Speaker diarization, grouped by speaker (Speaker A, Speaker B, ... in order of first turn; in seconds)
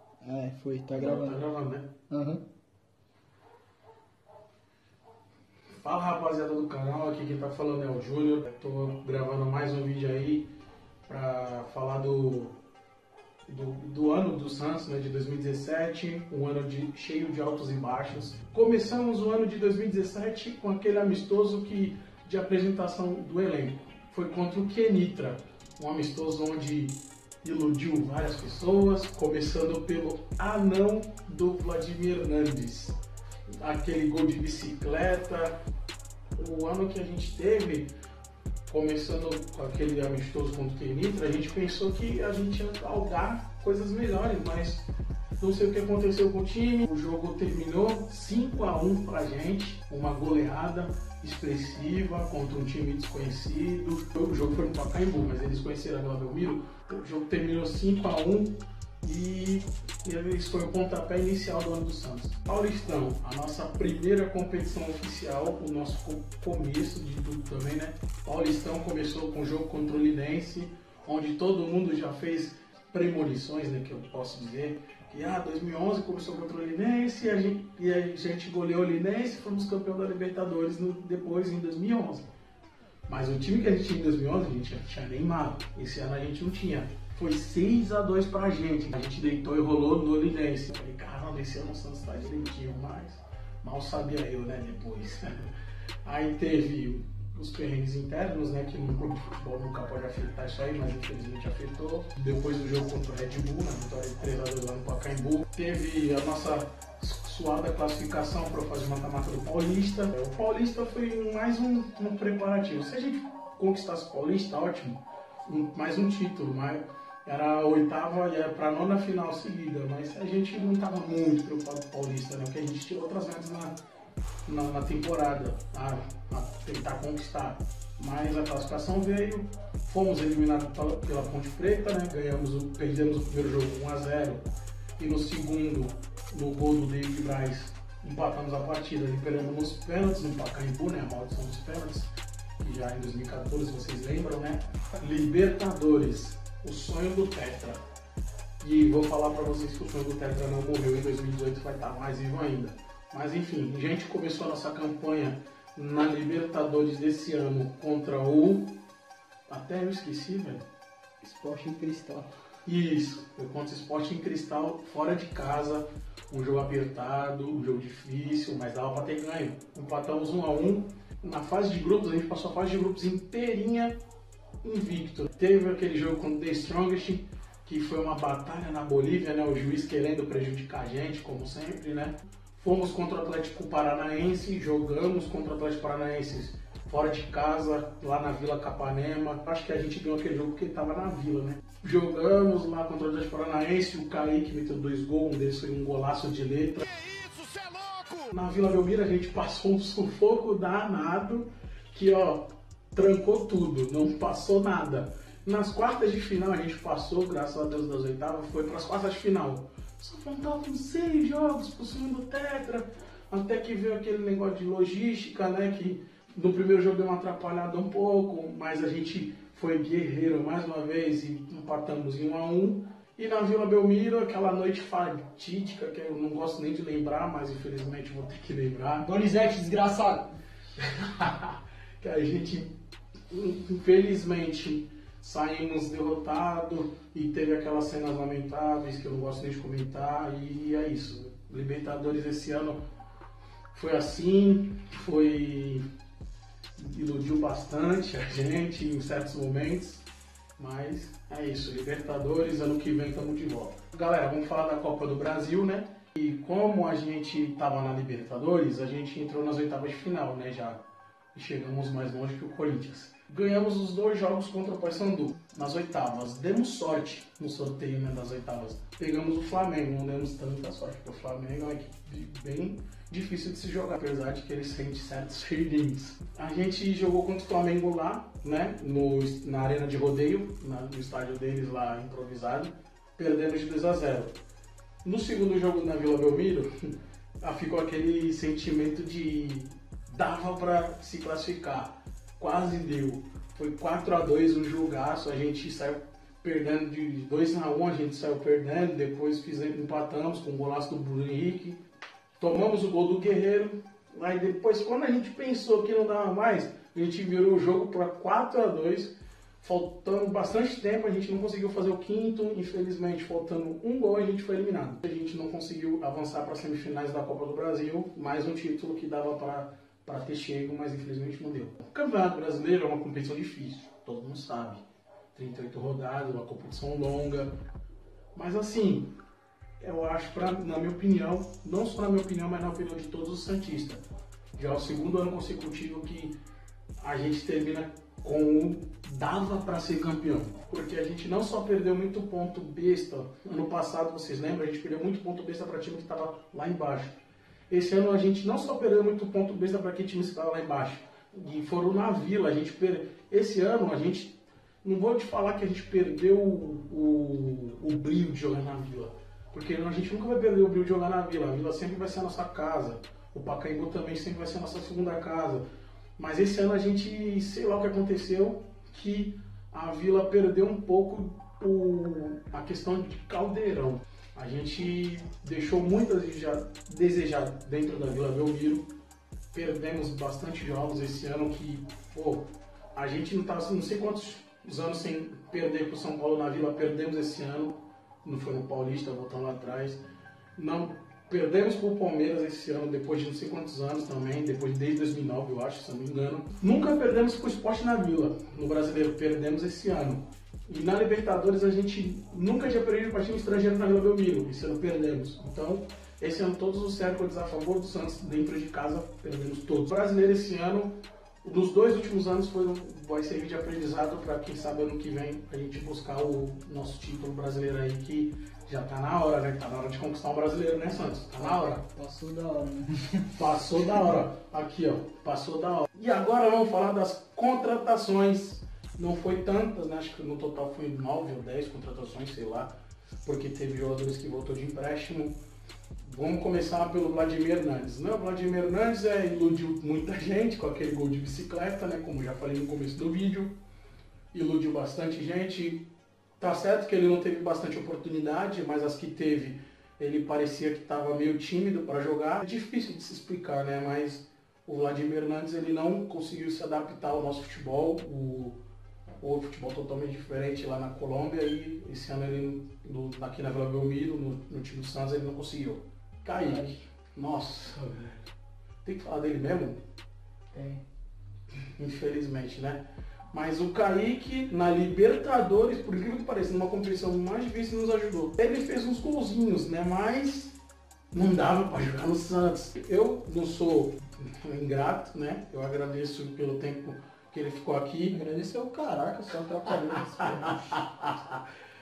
Speaker A: 0.2-1.4, 2.1-2.4, 161.2-162.3, 197.1-198.0, 229.0-230.3, 421.4-423.3, 466.4-466.7, 470.5-470.8, 488.1-490.8
Speaker B: 0.9-1.9, 5.8-10.5, 11.1-12.6, 13.5-33.0, 33.6-35.5, 36.4-37.9, 38.7-44.9, 45.4-82.3, 83.1-95.5, 96.0-123.7, 124.5-134.4, 135.0-147.8, 148.6-158.7, 159.5-160.7, 162.6-173.9, 174.6-196.9, 198.3-229.1, 230.8-232.7, 233.3-242.8, 243.7-245.8, 246.8-250.0, 250.6-260.8, 261.3-284.3, 285.0-286.7, 287.4-301.8, 302.4-324.8, 325.3-327.5, 328.3-329.1, 329.8-334.0, 334.6-336.3, 337.0-347.2, 347.7-365.6, 366.2-378.9, 379.5-390.0, 390.6-410.9, 411.4-421.8, 423.3-432.7, 433.2-435.3, 436.0-443.5, 444.3-445.8, 446.4-458.6, 459.2-468.3, 468.8-469.8, 471.8-480.6, 481.1-488.2, 489.7-491.4